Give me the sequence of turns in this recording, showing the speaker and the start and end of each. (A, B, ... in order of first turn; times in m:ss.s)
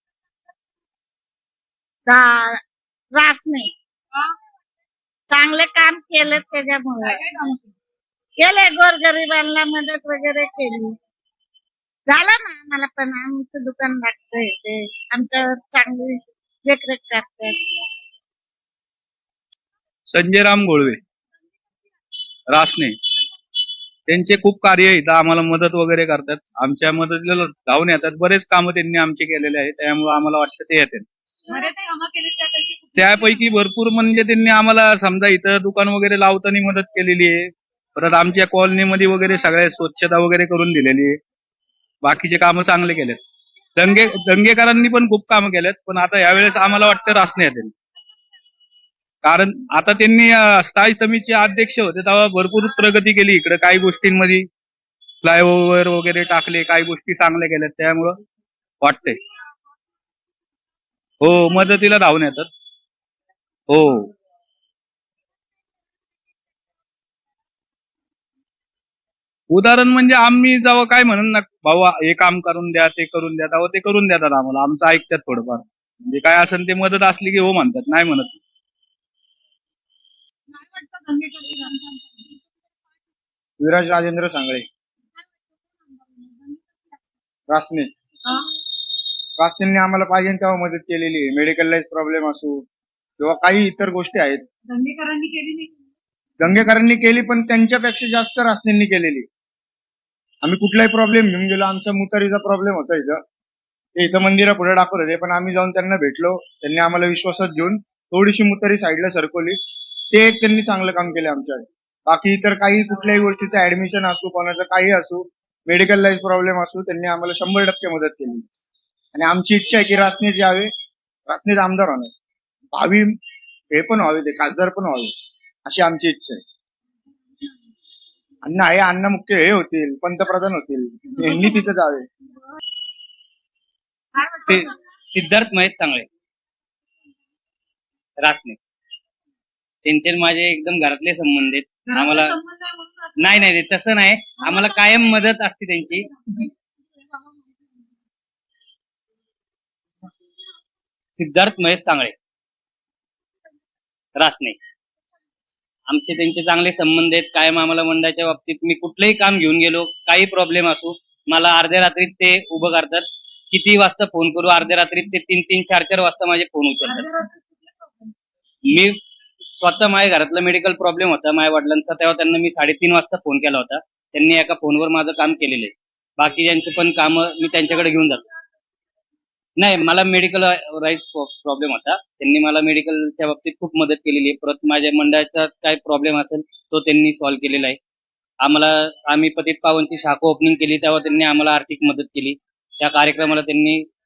0:02.1-0:02.6 A
0:03.2-0:03.7 A
0:05.3-0:07.5 A
0:07.2-0:07.6 B
0:08.4-0:11.0 A
0:12.1-0:17.5 A
0:20.1-0:21.0 C
0:22.5-0:23.0 C
0:24.1-0:31.1 C
0:31.5-0:33.7 B
0:33.0-0:41.2 C
0:42.0-0:43.2 C
0:43.8-0:47.7 C
0:49.2-0:54.5 C
0:55.2-0:58.2 C
0:58.8-0:59.2 C
1:01.2-1:02.5 C
1:03.7-1:04.1 C
1:09.5-1:18.4 C
1:20.5-1:22.3 B
1:23.6-1:24.7 D
1:26.1-1:26.6 B
1:27.5-1:27.9 D
1:29.4-1:32.6 D
1:33.2-1:34.4 D
1:34.7-1:35.7 B
1:36.4-1:39.3 D
1:40.4-1:43.2 D
1:44.0-1:49.6 D
1:50.1-1:58.4 D
1:59.1-2:00.7 D
2:01.3-2:02.1 D
2:02.7-2:03.2 D
2:03.7-2:05.1 D
2:05.7-2:06.4 D
2:08.4-2:12.1 D
2:14.2-2:14.5 B
2:14.4-2:16.1 E
2:18.2-2:18.6 E
2:19.8-2:22.4 E
2:22.4-2:23.1 B
2:23.2-2:26.1 E
2:31.2-2:32.1 E
2:34.2-2:34.6 E
2:35.9-2:47.3 E
2:48.7-2:49.0 E
2:49.6-2:58.2 E
2:59.6-3:07.8 E
3:08.4-3:13.8 E